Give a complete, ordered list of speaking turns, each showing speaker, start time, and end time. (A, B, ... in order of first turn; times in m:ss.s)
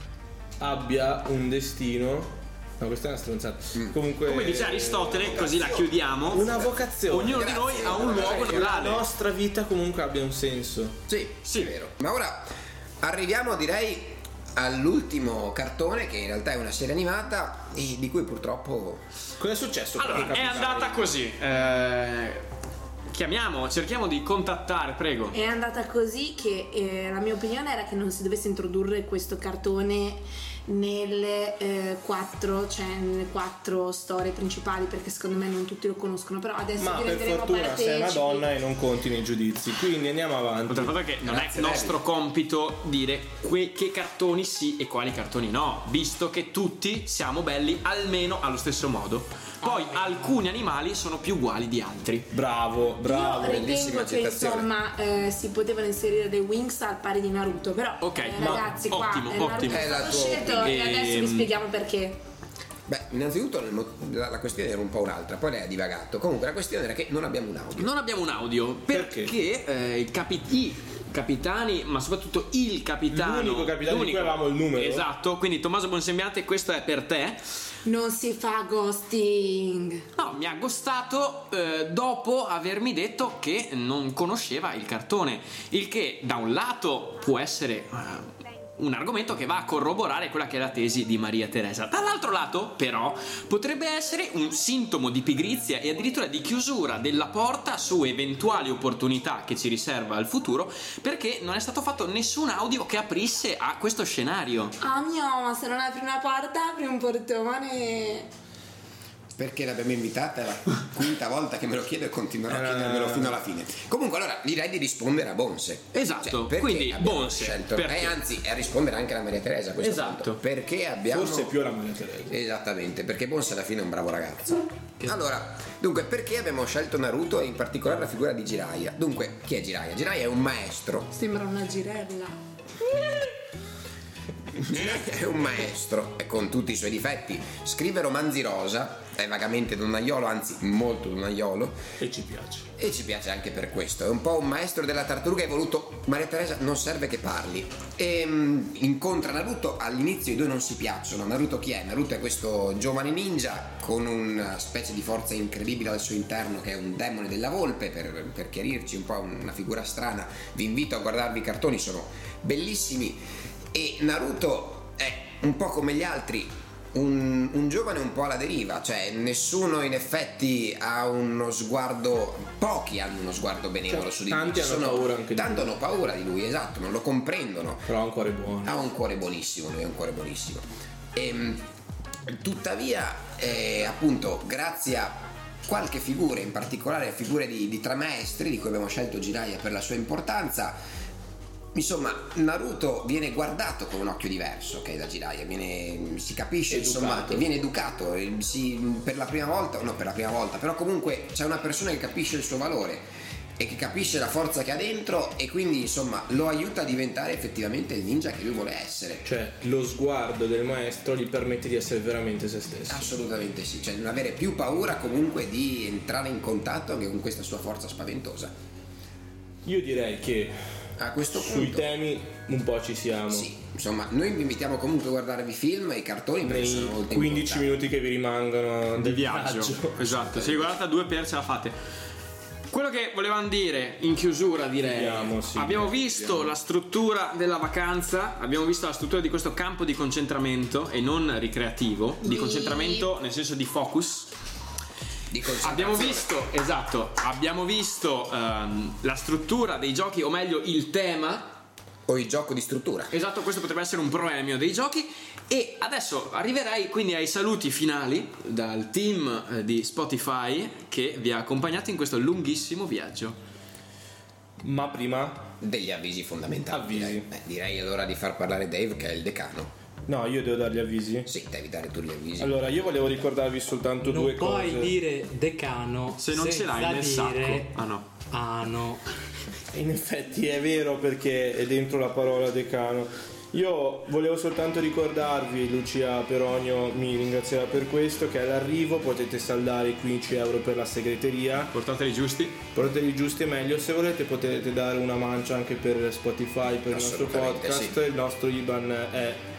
0:00.6-0:05.5 A
0:04.2-0:06.5 B
0:05.2-0:08.8 C
0:06.3-0:11.0 A
0:07.1-0:09.0 B
0:11.1-0:12.4 C
0:11.4-0:11.7 B
0:13.0-0:19.0 C
0:19.4-0:21.1 A
0:20.0-0:22.4 B
0:23.1-0:25.4 B
0:25.3-0:38.5 D
0:36.8-0:41.0 A
0:40.7-0:52.3 B
0:41.2-0:42.0 C
0:49.6-0:50.4 E
0:52.3-0:53.6 A
0:53.0-1:02.2 D
0:53.4-0:54.7 C
0:58.0-1:01.5 B
0:59.6-1:00.8 C
1:02.9-1:07.9 C
1:07.8-1:17.4 B
1:08.9-1:09.3 A
1:13.1-1:15.0 A
1:17.8-1:20.0 D
1:20.2-1:44.7 B
1:44.8-1:48.3 D
1:49.4-2:01.6 C
1:52.5-1:53.4 A
1:55.9-1:58.2 B
1:59.8-2:00.4 B
2:01.1-2:02.3 A
2:02.3-2:11.1 C
2:11.1-2:12.4 D
2:14.5-2:21.8 C
2:22.0-2:22.7 A
2:22.8-2:57.9 C
2:53.9-2:55.7 A
2:57.9-2:58.7 A
2:58.6-3:01.6 C
3:02.2-3:10.8 C
3:11.7-3:29.2 C
3:16.7-3:17.4 A
3:29.2-3:33.1 A
3:32.9-3:38.5 C
3:39.6-3:40.6 A
3:41.0-3:41.9 C
3:41.3-3:43.5 A
3:43.3-3:47.7 C
3:46.4-3:50.0 A
3:49.0-3:51.7 B
3:50.0-3:50.8 C
3:52.7-4:04.3 B
3:54.8-3:56.3 A
4:02.2-4:03.1 D
4:05.3-4:06.3 C
4:05.6-4:11.6 B
4:12.1-4:13.1 C
4:13.1-4:23.4 B
4:24.6-4:25.5 A
4:25.6-4:29.7 C
4:26.7-4:27.2 A
4:30.1-4:31.3 A
4:31.2-4:32.8 C
4:32.4-4:34.9 A
4:34.0-4:39.0 E
4:36.2-4:38.1 B
4:39.7-4:51.7 A
4:51.7-4:52.6 B
4:52.7-4:59.4 A
4:56.9-4:58.0 C